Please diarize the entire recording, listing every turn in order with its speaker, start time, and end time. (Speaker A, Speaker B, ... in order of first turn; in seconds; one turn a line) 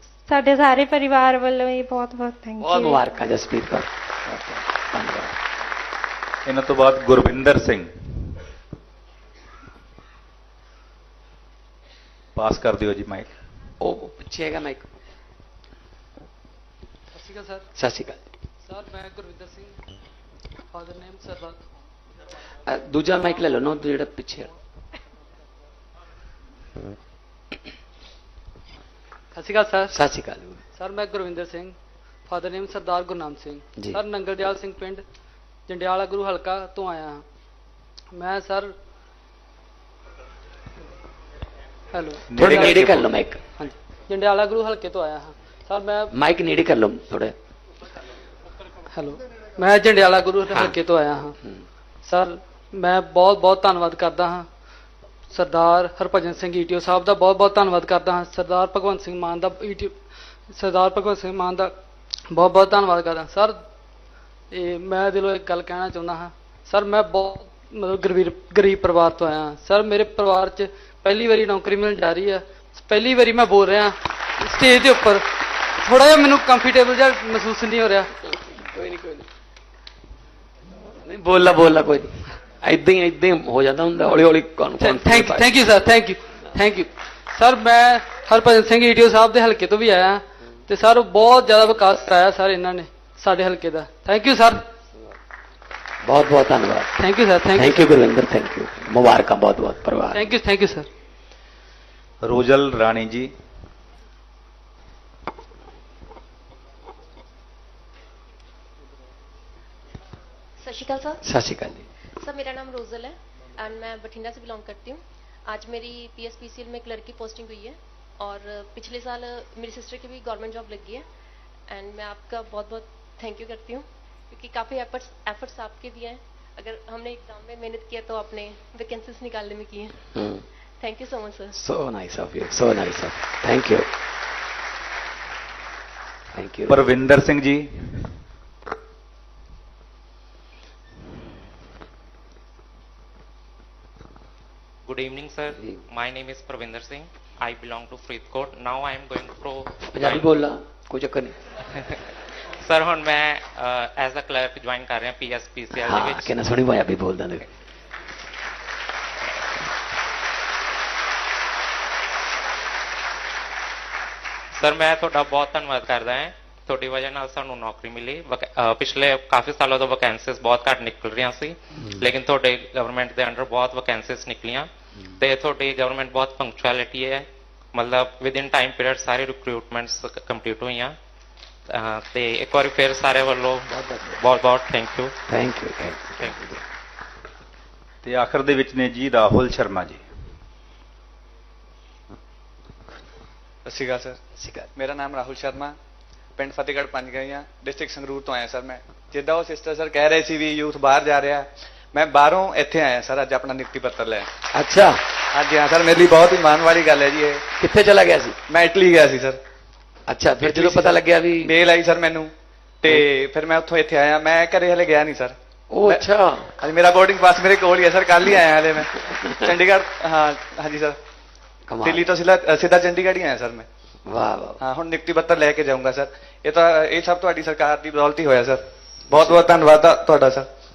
Speaker A: 0.3-3.3
Speaker B: 2.6-5.4
Speaker C: 6.5-8.4
Speaker C: 12.4-13.3
Speaker B: 13.8-14.9
Speaker D: 17.1-17.6
Speaker B: 17.8-18.2
Speaker D: 18.6-19.8
Speaker D: 20.7-21.6
Speaker B: 22.7-24.5
Speaker D: 29.3-29.9
Speaker B: 29.9-30.6
Speaker D: 30.8-31.8
Speaker D: 32.3-35.0
Speaker D: 35.7-37.2
Speaker D: 38.1-38.7
Speaker D: 41.9-42.7
Speaker C: 42.3-43.1
Speaker B: 42.4-43.4
Speaker D: 43.5-46.1
Speaker B: 46.1-47.4
Speaker D: 48.9-51.4
Speaker B: 50.5-50.8
Speaker D: 52.0-54.5
Speaker D: 55.3-60.0
Speaker D: 60.5-61.8
Speaker D: 62.3-63.6
Speaker D: 64.5-75.3
Speaker D: 75.8-78.1
Speaker B: 78.4-79.2
Speaker B: 81.0-85.6
Speaker D: 84.8-94.7
Speaker B: 96.0-96.9
Speaker D: 97.0-97.9
Speaker B: 97.5-100.3
Speaker D: 100.1-100.9
Speaker C: 102.2-103.3
Speaker E: 110.6-111.2
Speaker B: 111.2-111.9
Speaker E: 112.2-121.1
Speaker E: 121.7-130.0
Speaker B: 130.2-130.4
Speaker E: 130.8-131.5
Speaker B: 131.5-133.9
Speaker B: 136.3-136.8
Speaker C: 136.7-138.1
Speaker F: 144.9-150.4
Speaker B: 149.8-151.4
Speaker F: 152.6-156.3
Speaker B: 155.7-157.5
Speaker F: 164.5-180.9
Speaker F: 181.7-185.1
Speaker B: 183.7-184.2
Speaker B: 185.3-186.6
Speaker C: 188.0-190.0
Speaker G: 193.7-194.2
Speaker B: 194.4-194.7
Speaker G: 194.8-195.8
Speaker G: 196.4-204.3
Speaker B: 204.5-205.0
Speaker G: 205.3-207.4
Speaker B: 207.6-208.4
Speaker G: 208.5-209.4
Speaker B: 210.1-211.6
Speaker G: 210.4-216.1
Speaker B: 215.7-216.5
Speaker G: 216.6-221.0
Speaker B: 221.7-222.1
Speaker G: 221.8-223.7
Speaker B: 224.1-224.6
Speaker G: 224.6-230.5
Speaker B: 229.1-229.4